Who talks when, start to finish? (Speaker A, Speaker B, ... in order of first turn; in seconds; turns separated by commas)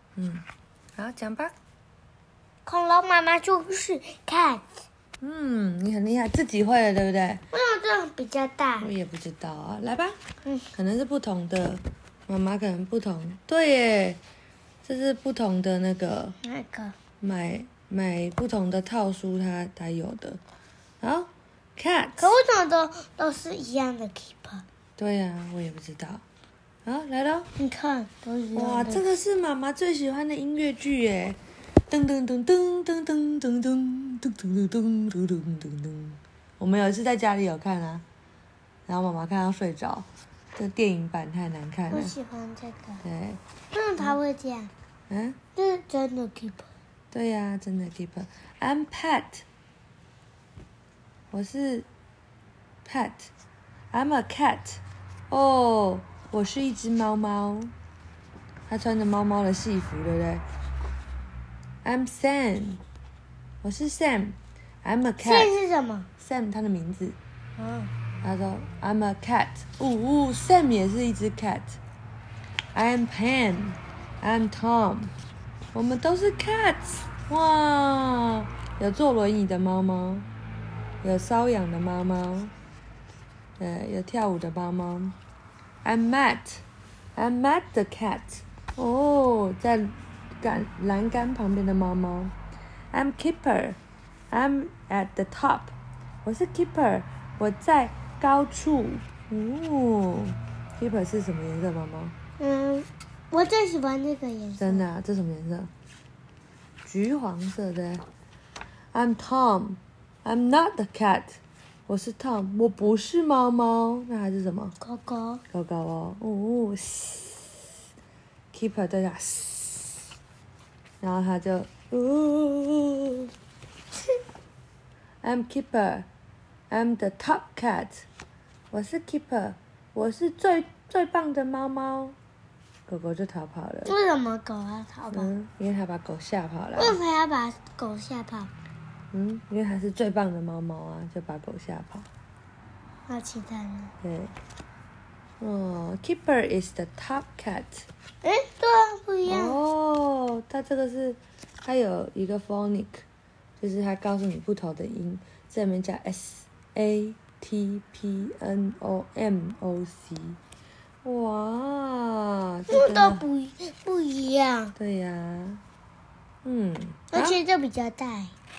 Speaker A: 0.1-0.5, Speaker A: 1.0-1.6, Speaker B: 2.6-4.8, Speaker A: 5.2-7.4, Speaker B: 7.5-8.9, Speaker A: 8.8-10.2, Speaker A: 10.7-14.2, Speaker A: 14.8-16.4, Speaker B: 16.4-17.0, Speaker A: 17.2-20.4, Speaker A: 21.0-22.3, Speaker B: 22.2-24.6, Speaker A: 25.0-26.2, Speaker A: 26.9-27.5, Speaker B: 27.6-29.1, Speaker A: 28.6-31.4, Speaker A: 31.9-38.0, Speaker A: 38.9-42.1, Speaker B: 41.9-43.0, Speaker A: 43.0-43.4, Speaker B: 43.7-44.7, Speaker A: 45.1-45.4, Speaker B: 45.5-46.7, Speaker A: 47.1-49.5, Speaker A: 51.3-51.9, Speaker A: 52.9-53.3, Speaker A: 53.9-57.7, Speaker A: 58.7-60.4, Speaker A: 61.8-62.8, Speaker A: 63.6-65.5, Speaker B: 65.2-66.1, Speaker A: 66.2-67.2, Speaker B: 67.6-67.9, Speaker A: 68.2-71.8, Speaker A: 72.7-75.1, Speaker A: 75.7-80.3, Speaker A: 81.0-82.5, Speaker A: 83.6-85.2, Speaker A: 85.8-86.6, Speaker A: 87.2-92.3, Speaker A: 92.9-93.8, Speaker A: 94.3-102.2, Speaker B: 102.4-104.9, Speaker A: 104.6-105.7, Speaker A: 106.8-108.0, Speaker A: 108.9-114.8, Speaker B: 114.8-115.4, Speaker A: 115.5-117.8, Speaker A: 118.5-120.1, Speaker A: 121.0-123.3, Speaker A: 125.2-126.1, Speaker A: 126.7-128.1, Speaker A: 128.7-132.2, Speaker A: 132.9-134.0, Speaker B: 133.9-135.3, Speaker A: 135.1-137.0, Speaker B: 136.8-138.5, Speaker A: 139.1-142.1, Speaker B: 143.1-143.9, Speaker A: 144.0-144.3, Speaker A: 145.4-147.9, Speaker B: 148.2-149.6, Speaker A: 149.2-153.1, Speaker A: 153.6-160.4, Speaker A: 161.0-163.2, Speaker B: 162.7-164.7, Speaker A: 164.8-165.6, Speaker A: 166.4-167.4, Speaker B: 167.1-168.3